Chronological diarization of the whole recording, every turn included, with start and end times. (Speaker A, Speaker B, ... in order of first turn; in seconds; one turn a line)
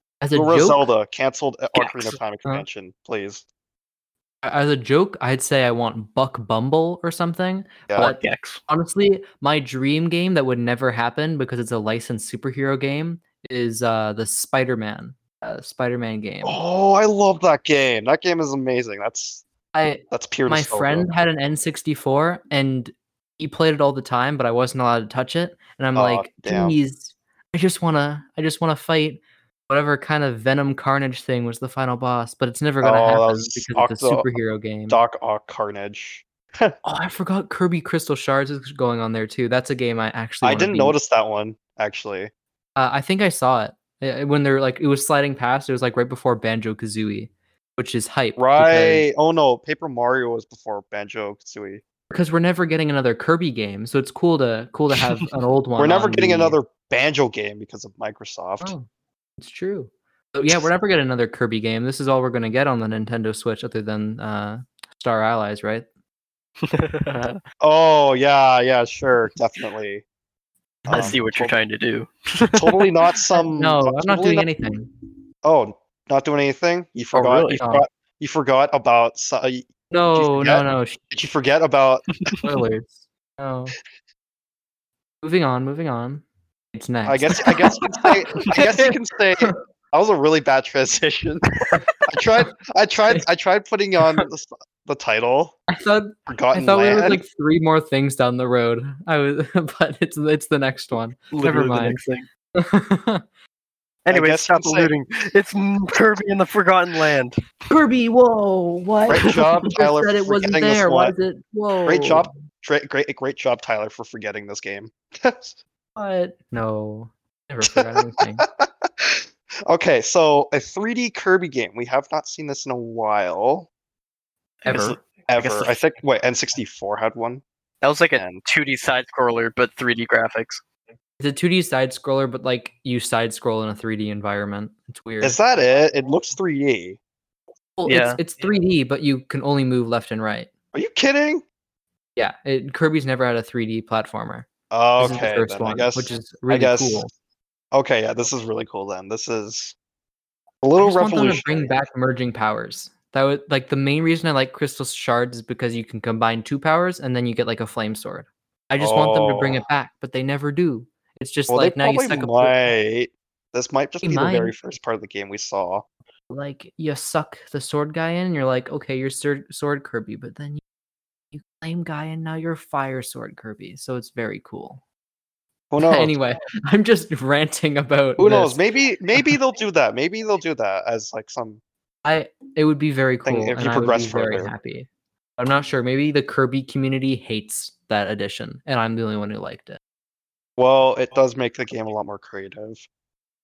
Speaker A: 0.2-0.8
Speaker B: 0.3-3.4
Speaker C: 1.7-2.2
Speaker A: 4.4-16.6
Speaker C: 8.0-8.6
Speaker B: 16.4-19.4
Speaker A: 19.7-35.0
Speaker B: 20.1-21.1
Speaker B: 25.9-26.8
Speaker B: 32.8-34.3
Speaker B: 34.9-36.7
Speaker A: 36.8-41.0
Speaker B: 40.4-42.3
Speaker A: 42.8-49.0
Speaker B: 48.4-51.8
Speaker A: 52.1-56.6
Speaker B: 55.8-58.7
Speaker A: 58.6-58.9
Speaker A: 59.4-65.8
Speaker C: 66.6-67.4
Speaker B: 67.6-70.0
Speaker B: 70.8-71.5
Speaker C: 70.9-72.9
Speaker B: 72.5-74.5
Speaker A: 73.5-74.9
Speaker B: 75.4-82.3
Speaker C: 77.1-77.6
Speaker A: 77.6-77.8
Speaker A: 79.9-81.0
Speaker A: 82.4-83.7
Speaker A: 85.2-89.6
Speaker B: 87.0-95.6
Speaker A: 95.7-102.0
Speaker B: 96.3-97.2
Speaker C: 101.3-102.3
Speaker A: 102.5-103.2
Speaker C: 104.0-107.4
Speaker B: 104.1-104.9
Speaker A: 107.7-112.3
Speaker B: 109.1-111.1
Speaker B: 111.8-115.6
Speaker A: 116.0-118.4
Speaker B: 117.7-123.7
Speaker C: 124.6-125.8
Speaker A: 124.7-125.0
Speaker B: 125.3-127.4
Speaker C: 127.8-130.6
Speaker B: 128.1-128.4
Speaker A: 131.2-135.4
Speaker B: 135.2-137.0
Speaker A: 137.8-140.5
Speaker C: 137.9-138.2
Speaker B: 140.7-141.4
Speaker A: 142.2-144.5
Speaker B: 144.7-147.0
Speaker A: 145.0-147.1
Speaker B: 147.7-149.7
Speaker B: 150.6-151.8
Speaker A: 150.8-162.7
Speaker B: 158.8-159.6
Speaker B: 161.5-165.8
Speaker A: 164.0-164.5
Speaker A: 166.3-170.6
Speaker A: 171.3-174.8
Speaker B: 175.7-176.1
Speaker A: 175.8-178.6
Speaker B: 178.2-181.6
Speaker A: 182.0-189.8
Speaker B: 183.2-184.5
Speaker B: 190.6-192.8